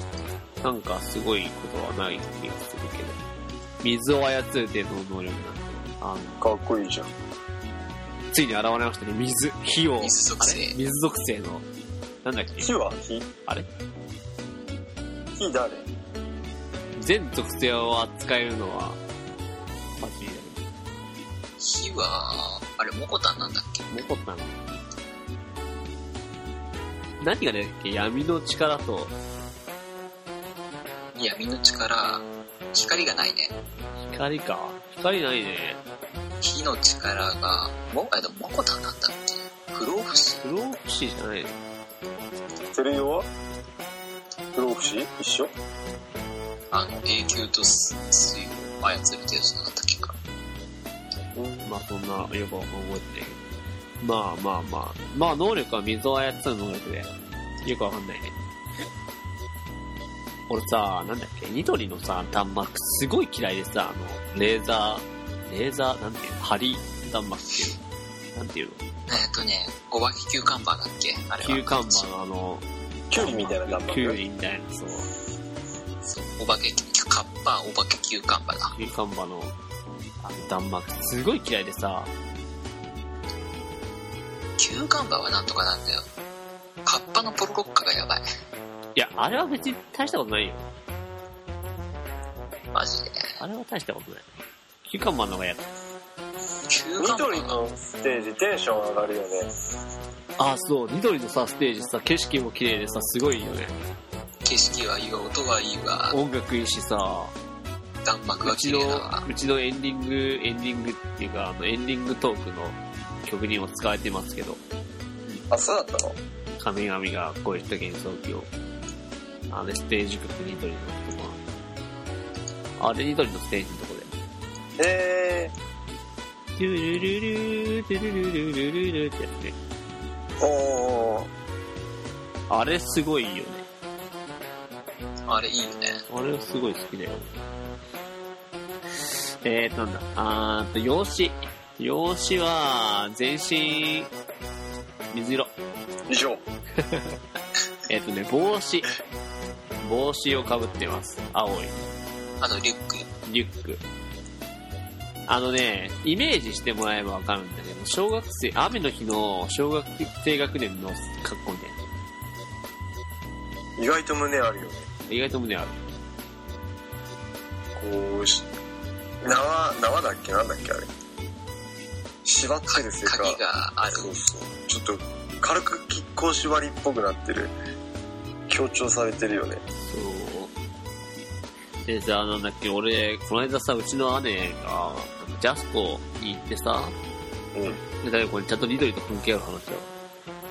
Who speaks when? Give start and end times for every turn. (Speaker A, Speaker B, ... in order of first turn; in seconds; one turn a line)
Speaker A: 0.6-3.2
Speaker A: 3.8-6.4
Speaker B: 6.4-7.1
Speaker A: 8.3-11.6
Speaker C: 10.0-10.8
Speaker A: 12.2-12.7
Speaker B: 12.6-13.3
Speaker B: 15.3-15.9
Speaker A: 16.9-19.0
Speaker A: 20.0-20.6
Speaker C: 21.6-23.9
Speaker A: 23.9-24.6
Speaker A: 27.2-29.1
Speaker C: 31.2-33.5
Speaker A: 34.0-35.8
Speaker C: 36.4-40.4
Speaker A: 40.4-41.6
Speaker B: 42.7-43.3
Speaker B: 44.5-45.5
Speaker C: 46.7-50.1
Speaker B: 51.3-51.7
Speaker A: 51.6-53.4
Speaker A: 54.0-57.1
Speaker A: 57.6-58.3
Speaker A: 60.5-67.8
Speaker A: 68.3-68.8
Speaker C: 69.1-72.0
Speaker A: 71.4-75.1
Speaker B: 73.1-74.2
Speaker C: 76.0-78.7
Speaker A: 78.7-79.5
Speaker A: 80.2-82.1
Speaker C: 84.6-86.1
Speaker C: 86.8-88.2
Speaker A: 89.0-90.7
Speaker C: 92.7-93.4
Speaker A: 93.4-94.2
Speaker A: 94.8-95.7
Speaker C: 96.7-97.6
Speaker B: 97.0-99.5
Speaker A: 100.4-103.8
Speaker C: 104.4-106.2
Speaker A: 106.1-107.3
Speaker C: 108.0-109.2
Speaker A: 108.4-114.6
Speaker B: 115.5-116.2
Speaker A: 116.6-118.5
Speaker A: 119.5-121.4
Speaker A: 122.8-124.1
Speaker B: 124.8-125.5
Speaker A: 126.5-129.6
Speaker B: 130.4-131.3
Speaker A: 132.5-133.7
Speaker C: 135.3-136.0
Speaker A: 136.1-137.3
Speaker A: 139.4-144.1
Speaker A: 145.1-145.5
Speaker B: 146.1-146.4
Speaker A: 146.8-147.2
Speaker A: 147.9-148.9
Speaker A: 149.8-151.8
Speaker C: 152.4-153.1
Speaker A: 153.2-153.8
Speaker A: 155.3-161.8
Speaker B: 163.8-164.9
Speaker A: 165.1-165.7
Speaker B: 167.7-168.5
Speaker B: 169.2-170.9
Speaker B: 172.2-177.5
Speaker C: 172.7-174.1
Speaker B: 178.5-179.6
Speaker A: 179.9-180.5
Speaker A: 181.8-186.9
Speaker B: 187.5-187.8
Speaker A: 188.0-189.9